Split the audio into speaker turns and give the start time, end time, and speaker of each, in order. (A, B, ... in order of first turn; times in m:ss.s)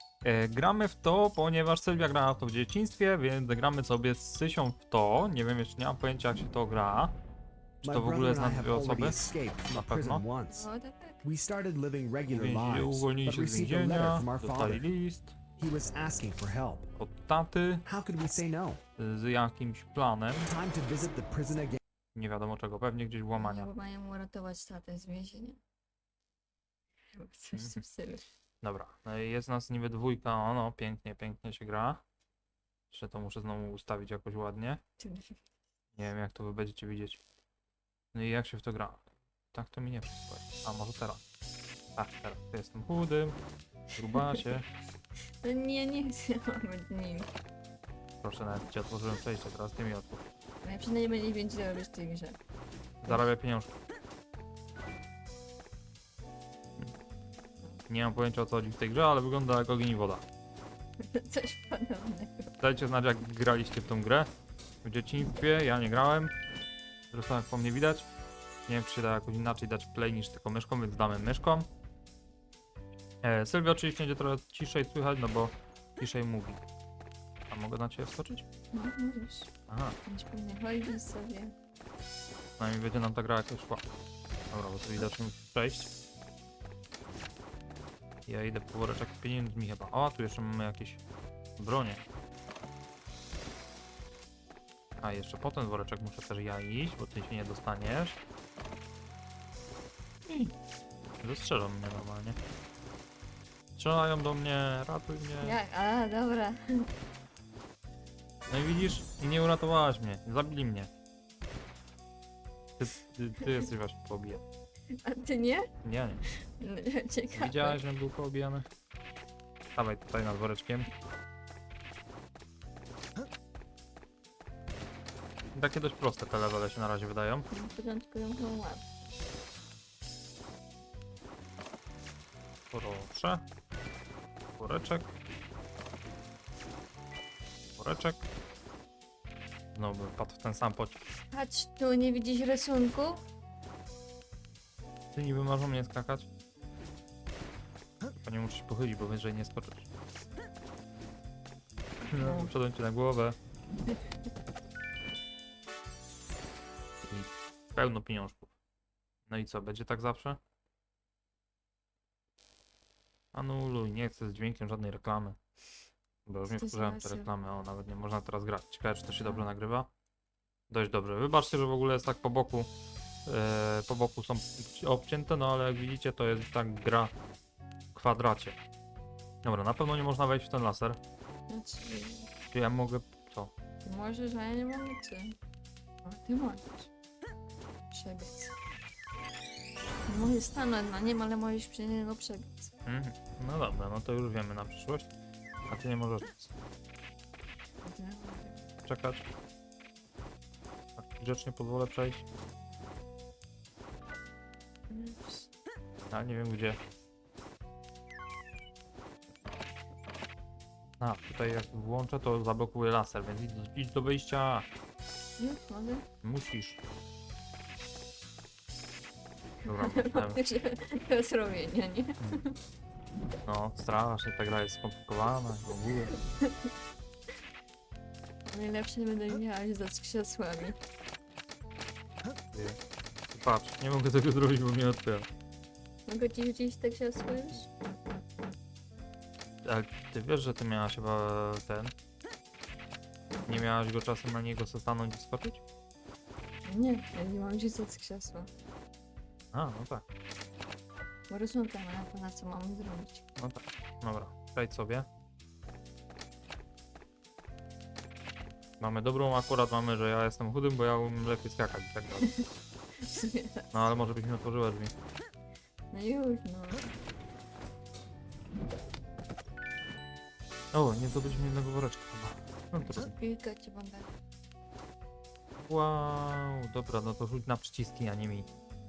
0:00.2-0:07.2 A
0:07.8-0:09.2 A
0:07.8-0:10.7 B
0:09.7-0:10.2 A
0:10.5-0:11.2 C
0:11.2-0:14.8 B
0:12.3-0:15.4 A
0:15.6-0:16.9 B
0:17.0-0:17.8 A
0:17.9-0:18.8 B
0:19.0-0:20.5 A
0:20.4-0:21.8 B
0:22.1-0:23.7 A
0:23.4-0:25.6 C
0:27.1-0:28.2 C
0:27.5-0:27.8 A
0:28.6-0:32.0 A
0:32.9-0:34.8 A
0:35.0-0:35.4 C
0:36.0-0:37.2 A
0:38.1-0:41.2 A
0:42.0-0:43.4 A
0:44.0-0:44.7 A
0:45.4-0:47.3 C
0:48.2-0:50.2 A
0:50.6-0:52.4 C
0:53.0-0:53.8 A
0:57.9-1:00.2 A
1:01.0-1:02.5 C
1:02.6-1:04.3 A
1:04.8-1:06.3 A
1:07.1-1:08.1 A
1:08.7-1:11.7 A
1:13.2-1:16.6 A
1:17.5-1:18.4 A
1:18.7-1:19.5 C
1:19.7-1:20.0 A
1:20.0-1:21.5 C
1:22.6-1:23.9 A
1:24.5-1:25.9 A
1:28.3-1:31.0 A
1:31.6-1:32.0 A
1:35.0-1:38.2 A
1:40.2-1:40.5 A
1:41.2-1:42.4 A
1:43.8-1:45.6 A
1:45.4-1:46.9 C
1:48.5-1:50.9 A
1:52.8-1:54.4 A
1:54.9-1:55.7 C
1:55.8-1:56.2 A
1:56.6-1:57.8 C
1:57.3-1:58.7 A
1:59.8-2:00.9 A
2:05.5-2:07.5 A
2:07.5-2:08.9 C
2:12.7-2:13.5 A
2:14.6-2:15.1 A
2:17.8-2:18.2 A
2:19.7-2:21.0 A
2:21.3-2:23.2 C
2:25.2-2:26.3 A
2:28.2-2:29.9 A
2:32.1-2:33.4 A
2:32.2-2:32.5 C
2:37.0-2:38.5 A
2:39.2-2:40.4 A
2:43.3-2:45.4 A
2:46.2-2:49.9 A
2:46.5-2:47.3 C
2:50.7-2:52.7 A
2:53.2-2:57.1 A
2:57.9-2:58.6 A
2:59.4-3:01.0 A
3:01.5-3:02.3 C
3:02.5-3:03.5 A
3:03.8-3:05.4 C
3:06.0-3:06.9 C
3:07.9-3:08.5 C
3:10.1-3:12.7 C
3:12.8-3:15.1 A
3:15.7-3:16.5 A
3:17.8-3:18.7 C
3:18.8-3:19.2 A
3:21.0-3:22.2 A
3:24.9-3:25.5 C
3:26.1-3:26.8 A
3:31.0-3:34.7 A
3:35.4-3:36.0 C
3:36.2-3:36.8 A
3:39.7-3:40.4 A
3:39.7-3:42.6 C
3:43.5-3:46.2 A
3:48.5-3:50.8 C
3:52.5-3:52.8 A
3:53.3-3:55.3 A
3:56.1-3:57.7 C
3:59.6-4:01.9 A
4:03.5-4:05.6 A
4:06.7-4:08.5 C
4:09.5-4:10.0 A
4:11.3-4:13.2 C
4:13.4-4:15.1 A
4:18.8-4:22.3 A
4:23.0-4:23.7 C
4:23.7-4:24.9 A
4:25.9-4:26.9 C
4:30.7-4:33.1 A
4:32.9-4:34.1 C
4:35.6-4:38.5 A